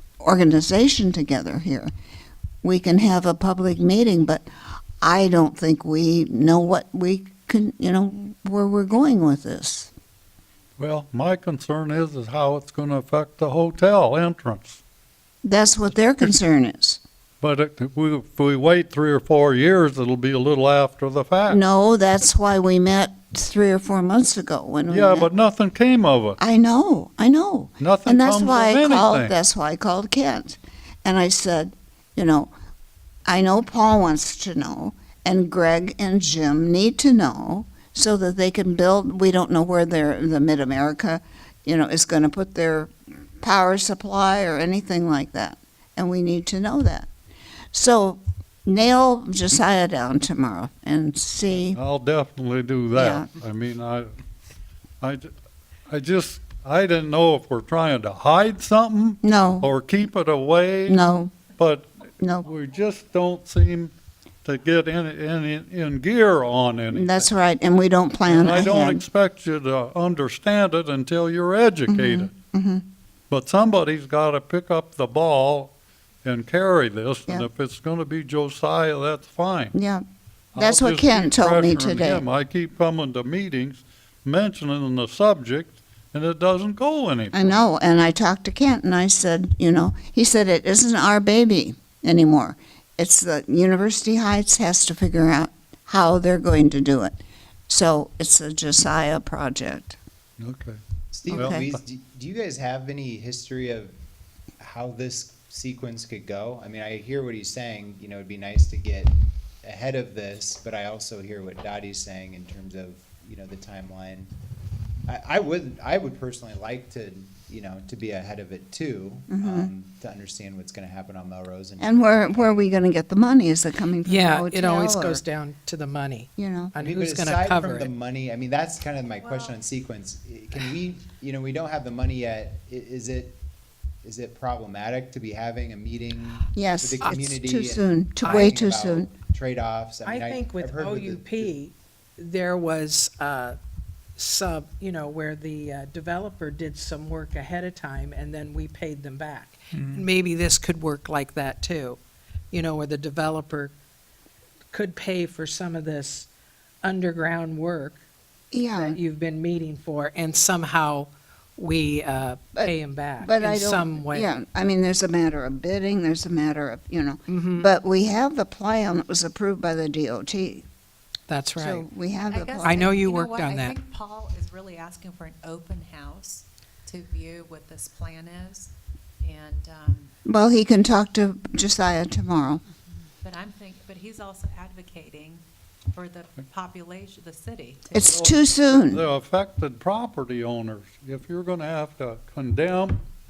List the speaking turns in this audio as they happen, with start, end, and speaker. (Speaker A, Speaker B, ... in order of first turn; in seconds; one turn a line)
Speaker A: 0.2-1.9
Speaker A: 2.6-4.5
Speaker A: 5.0-9.9
Speaker B: 10.8-14.8
Speaker A: 15.4-17.0
Speaker B: 17.4-21.6
Speaker A: 21.5-25.3
Speaker B: 24.9-26.4
Speaker A: 26.4-32.5
Speaker B: 27.8-29.4
Speaker A: 33.3-47.1
Speaker A: 47.7-51.8
Speaker B: 51.7-54.1
Speaker A: 53.0-53.3
Speaker B: 55.0-55.3
Speaker B: 55.9-61.9
Speaker A: 59.2-59.7
Speaker A: 60.9-61.3
Speaker A: 62.2-62.5
Speaker B: 62.4-63.9
Speaker B: 64.4-67.3
Speaker A: 66.9-69.0
Speaker B: 68.3-72.3
Speaker A: 71.9-72.8
Speaker B: 73.3-75.7
Speaker B: 76.2-79.7
Speaker A: 79.7-80.0
Speaker B: 80.5-87.6
Speaker A: 80.6-82.2
Speaker A: 87.3-100.0
Speaker B: 100.4-100.8
Speaker C: 101.1-103.9
Speaker A: 101.3-101.7
Speaker B: 101.3-101.8
Speaker C: 104.6-114.3
Speaker C: 115.1-122.5
Speaker A: 119.3-119.7
Speaker A: 121.8-125.2
Speaker D: 124.0-127.9
Speaker A: 126.4-126.7
Speaker C: 126.8-133.4
Speaker E: 129.1-129.6
Speaker C: 134.0-141.5
Speaker A: 136.5-139.1
Speaker D: 138.2-138.6
Speaker D: 140.0-143.6
Speaker D: 144.2-153.7
Speaker D: 154.7-156.3
Speaker D: 156.8-158.0
Speaker A: 158.5-159.0
Speaker D: 158.7-164.3
Speaker A: 162.6-170.7
Speaker D: 167.3-167.7
Speaker D: 171.3-171.9
Speaker A: 171.6-172.9
Speaker E: 172.3-178.7
Speaker D: 172.6-173.8
Speaker E: 179.2-180.1
Speaker A: 180.3-182.6
Speaker E: 183.2-188.3
Speaker A: 187.9-189.0
Speaker B: 188.1-193.0